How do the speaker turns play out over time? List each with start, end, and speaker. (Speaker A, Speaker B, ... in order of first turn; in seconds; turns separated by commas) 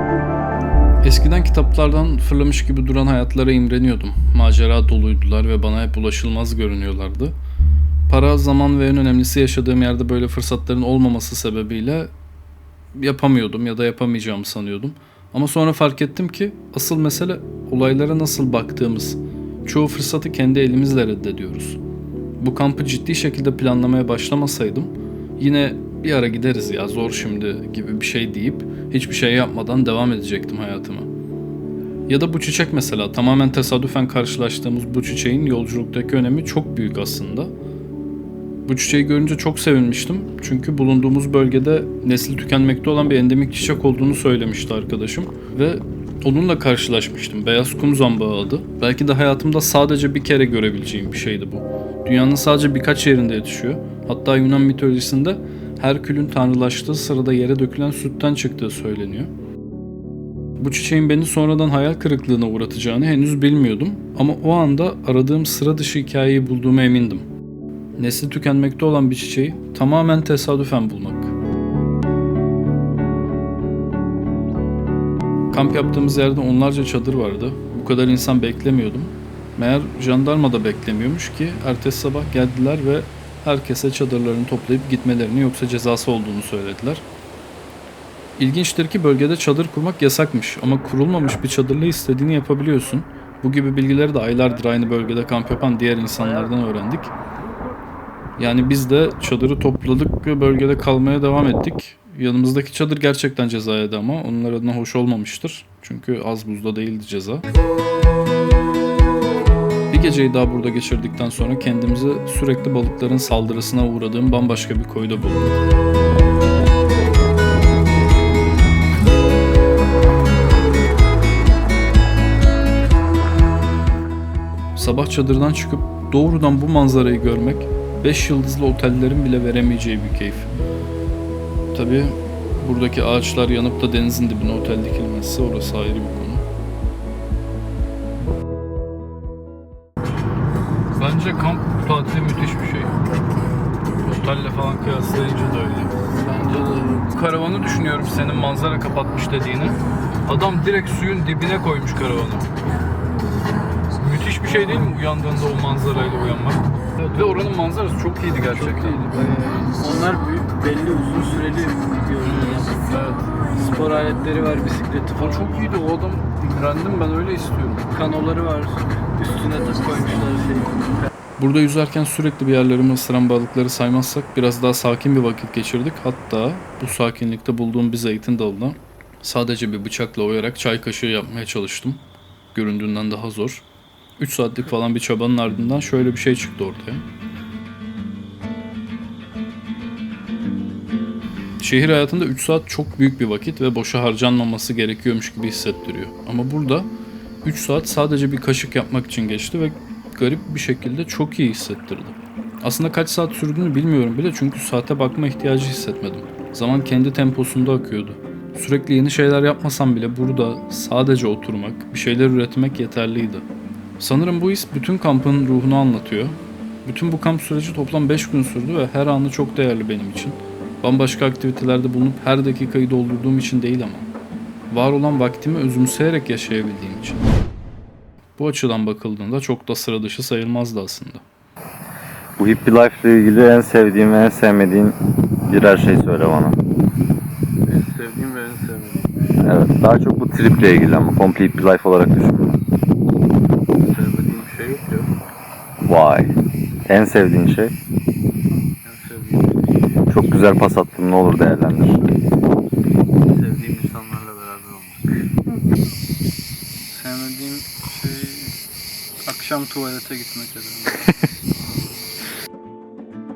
Speaker A: 1.0-7.3, Speaker A: 8.1-12.1, Speaker A: 12.9-21.8, Speaker A: 22.4-31.1, Speaker A: 32.1-37.5, Speaker A: 38.7-59.3, Speaker A: 60.6-67.2, Speaker A: 68.0-71.3, Speaker A: 75.5-87.0, Speaker A: 88.4-97.1, Speaker A: 98.4-107.5, Speaker A: 109.9-115.5, Speaker A: 124.8-130.5, Speaker A: 131.7-136.4, Speaker A: 141.0-143.0, Speaker A: 143.9-152.5, Speaker B: 146.3-146.7, Speaker A: 154.0-159.3, Speaker B: 158.7-162.7, Speaker A: 162.2-163.5, Speaker B: 163.6-165.6, Speaker A: 165.0-168.0, Speaker B: 167.9-171.1, Speaker A: 171.4-182.0, Speaker A: 182.5-183.6, Speaker A: 184.2-187.0, Speaker A: 191.6-196.9, Speaker A: 197.4-213.5, Speaker A: 214.0-224.1, Speaker A: 224.7-227.2, Speaker A: 228.4-231.2, Speaker C: 232.4-236.6, Speaker B: 237.7-239.1, Speaker C: 239.4-242.6, Speaker B: 243.8-245.1, Speaker C: 245.8-246.3, Speaker C: 246.9-247.7, Speaker B: 248.8-250.0, Speaker C: 250.1-252.0, Speaker B: 253.2-255.1, Speaker A: 256.9-258.5, Speaker A: 259.3-261.0